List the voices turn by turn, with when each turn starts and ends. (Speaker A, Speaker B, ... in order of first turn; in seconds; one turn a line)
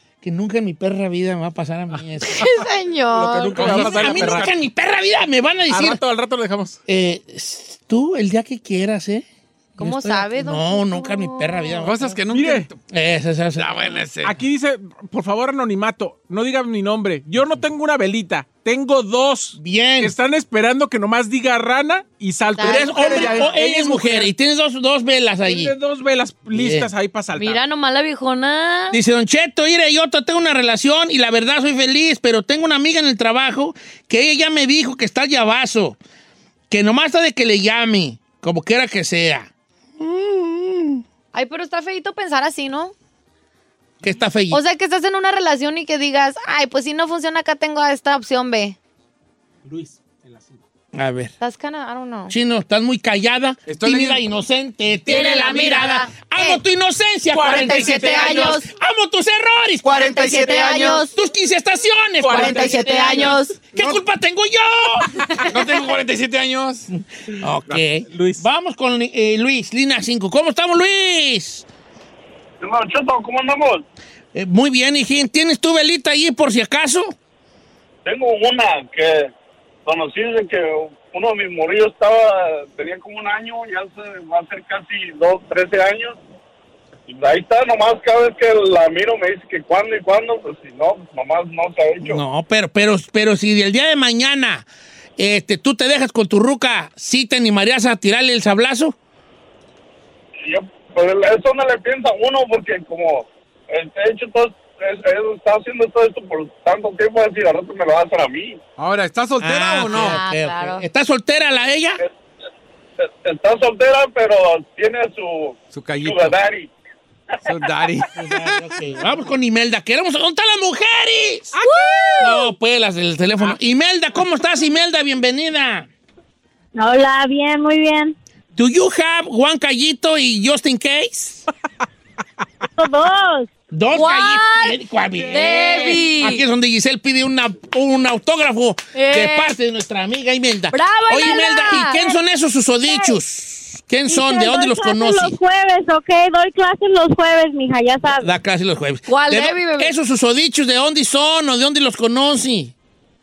Speaker A: 0.2-2.5
Speaker B: 2.3-4.3
Speaker C: 3.1-4.5
Speaker D: 3.5-4.5
Speaker A: 3.6-6.0
Speaker C: 5.7-6.8
Speaker A: 6.9-9.3
Speaker A: 9.8-12.1
Speaker B: 9.8-11.9
Speaker D: 11.8-12.8
Speaker C: 12.3-12.7
Speaker A: 12.9-13.7
Speaker D: 13.6-14.4
Speaker C: 14.2-24.3
Speaker A: 19.6-20.1
Speaker B: 22.6-23.4
Speaker A: 22.6-25.8
Speaker C: 25.4-27.6
Speaker A: 26.5-26.9
Speaker B: 27.4-29.0
Speaker A: 28.9-36.0
Speaker A: 36.7-41.0
Speaker B: 41.3-42.9
Speaker A: 44.0-44.6
Speaker B: 44.5-48.8
Speaker C: 49.6-50.6
Speaker A: 50.9-51.3
Speaker B: 51.4-52.3
Speaker A: 52.3-65.2
Speaker D: 53.7-54.2
Speaker B: 55.1-56.6
Speaker C: 57.3-58.6
Speaker B: 57.5-58.7
Speaker D: 59.9-60.9
Speaker B: 59.9-61.1
Speaker C: 62.2-63.4
Speaker B: 62.3-63.6
Speaker D: 65.5-66.9
Speaker A: 66.9-71.7
Speaker C: 68.1-68.4
Speaker E: 72.6-73.8
Speaker A: 74.3-77.1
Speaker E: 78.1-79.3
Speaker E: 79.9-86.2
Speaker E: 87.1-92.2
Speaker A: 92.0-99.0
Speaker E: 100.5-108.6
Speaker D: 108.8-110.2
Speaker A: 109.4-112.0
Speaker B: 109.9-110.8
Speaker E: 113.2-116.7
Speaker D: 115.7-116.4
Speaker D: 117.5-118.7
Speaker A: 118.1-121.6
Speaker B: 121.6-122.5
Speaker A: 122.2-125.9
Speaker F: 126.8-128.2
Speaker A: 128.6-131.5
Speaker F: 132.8-133.5
Speaker A: 133.7-145.4
Speaker B: 133.9-136.4
Speaker B: 138.9-139.5
Speaker B: 140.7-142.1
Speaker F: 144.1-148.3
Speaker A: 148.2-152.7
Speaker B: 149.1-149.9